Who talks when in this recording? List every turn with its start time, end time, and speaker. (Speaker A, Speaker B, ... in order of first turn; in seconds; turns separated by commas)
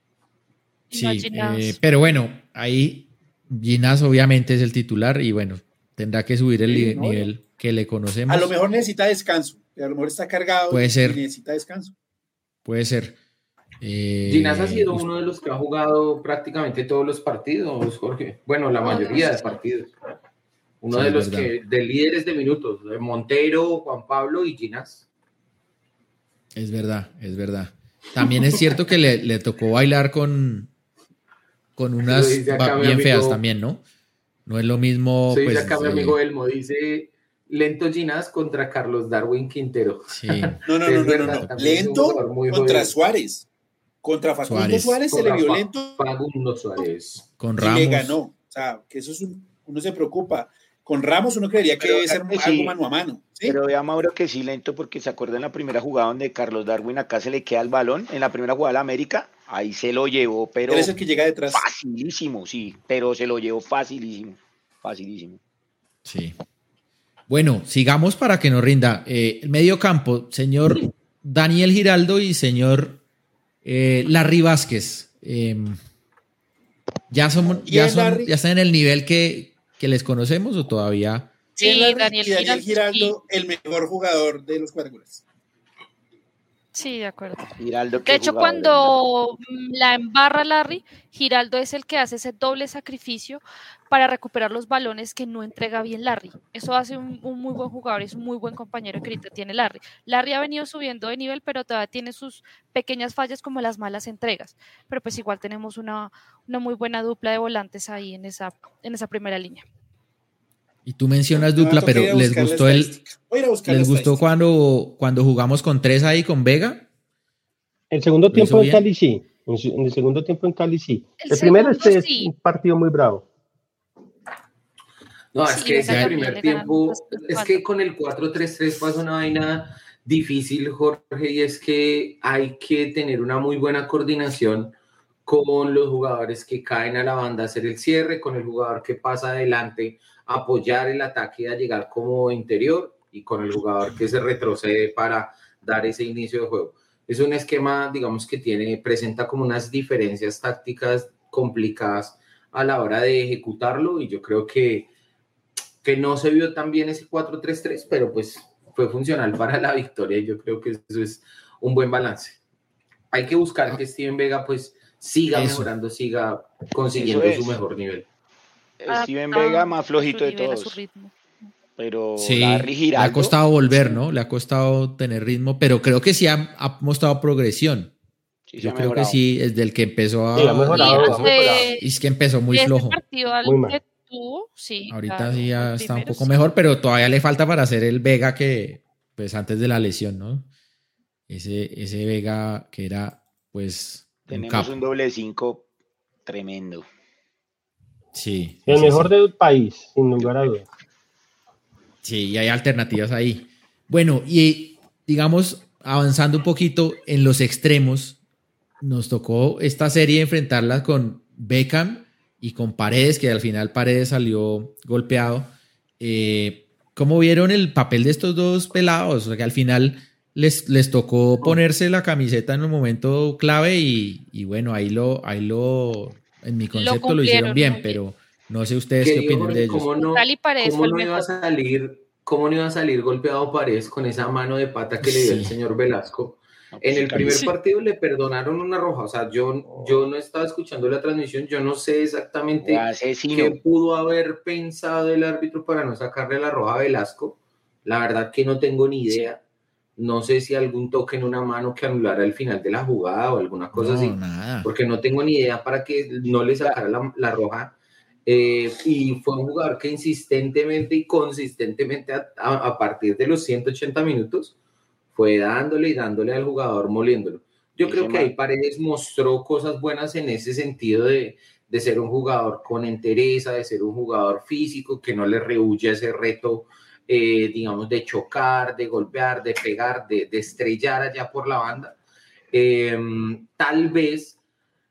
Speaker A: 0.9-1.8, Speaker B: 0.9-8.6, Speaker C: 6.7-7.3, Speaker C: 8.3-11.9, Speaker B: 10.7-11.2, Speaker B: 12.7-13.2, Speaker B: 13.8-15.1, Speaker D: 14.3-19.9, Speaker A: 18.8-19.5, Speaker D: 20.8-25.1, Speaker B: 20.9-21.5, Speaker B: 26.6-30.7, Speaker D: 28.2-28.6, Speaker B: 31.8-33.8, Speaker D: 32.0-33.4, Speaker B: 34.5-36.2, Speaker D: 35.3-42.9, Speaker B: 40.1-40.6, Speaker C: 40.6-43.5, Speaker B: 41.3-41.5, Speaker C: 44.0-46.0, Speaker B: 44.4-45.0, Speaker D: 45.1-47.3, Speaker B: 47.4-48.2, Speaker C: 47.6-53.6, Speaker E: 51.8-52.8, Speaker E: 53.4-60.9, Speaker C: 60.7-61.7, Speaker E: 61.5-65.4, Speaker B: 66.0-66.4, Speaker B: 67.3-73.0, Speaker B: 73.7-75.8, Speaker B: 77.1-81.3, Speaker C: 77.7-78.3, Speaker C: 81.6-85.2, Speaker A: 81.6-83.2, Speaker A: 86.7-87.5, Speaker E: 87.6-89.0, Speaker A: 88.1-109.7, Speaker B: 110.8-113.0, Speaker C: 111.6-114.2, Speaker B: 113.7-116.9, Speaker F: 117.9-123.2, Speaker B: 118.3-118.8, Speaker A: 121.2-122.3, Speaker D: 125.3-134.8, Speaker A: 125.5-127.6, Speaker B: 125.8-126.3, Speaker D: 135.3-154.9, Speaker D: 155.8-162.4, Speaker D: 163.1-168.1, Speaker B: 165.3-165.7, Speaker E: 166.9-167.6, Speaker E: 168.8-170.8, Speaker A: 168.9-171.1, Speaker E: 171.8-173.3, Speaker B: 172.2-177.9, Speaker E: 178.5-179.2, Speaker B: 178.6-183.0, Speaker F: 180.3-181.3, Speaker A: 180.7-181.9, Speaker E: 181.2-181.7, Speaker A: 182.5-186.3, Speaker F: 183.4-183.8, Speaker B: 184.9-190.5, Speaker B: 191.3-194.8, Speaker E: 194.3-195.7, Speaker E: 196.3-196.8, Speaker B: 198.1-199.1, Speaker F: 198.7-200.7, Speaker B: 202.0-208.2, Speaker B: 208.8-229.9, Speaker A: 226.7-228.0, Speaker D: 229.0-249.4, Speaker A: 230.0-231.3, Speaker B: 235.0-235.5, Speaker E: 236.7-237.5, Speaker A: 237.2-237.5, Speaker E: 242.6-243.6, Speaker D: 250.0-257.7, Speaker B: 253.7-254.7, Speaker D: 258.3-264.5, Speaker D: 265.1-282.0, Speaker E: 267.8-268.3, Speaker D: 282.5-284.4